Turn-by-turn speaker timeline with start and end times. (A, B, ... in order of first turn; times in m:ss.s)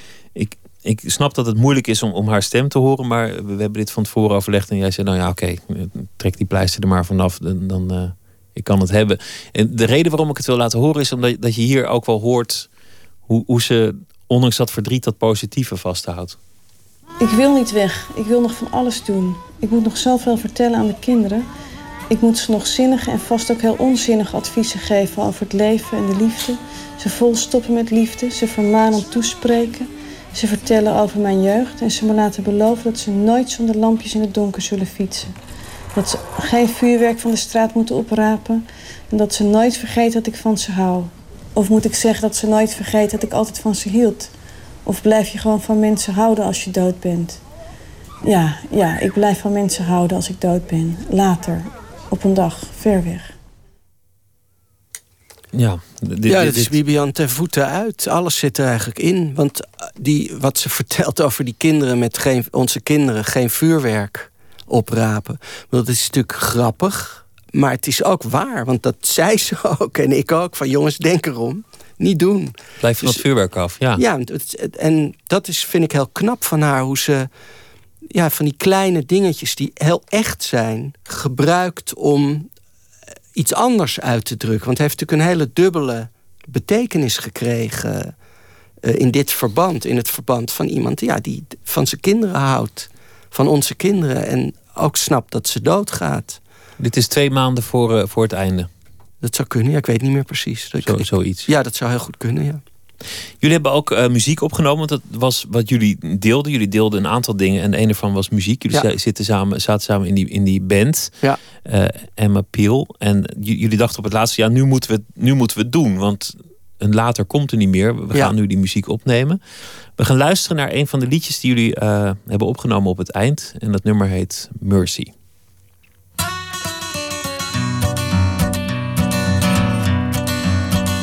0:00.4-0:12.7 A
0:13.3-0:16.4 A
0:17.2-0:21.5 B
0:22.1-0:35.4 B
0:35.9-0:44.3 B
0:44.8-0:47.4 B
0:48.2-0:53.3 B
0:55.5-0:56.7 A
0:56.3-1:13.2 C
1:12.8-1:14.0 A
1:14.0-1:17.3 C
1:18.1-1:22.5 C
1:23.4-1:28.1 C
1:28.8-1:36.4 C
1:36.8-1:38.7 A
1:39.2-1:42.6 C
1:40.8-1:41.5 A
1:43.4-1:51.1 A
1:51.6-1:59.4 A
2:00.0-2:05.1 A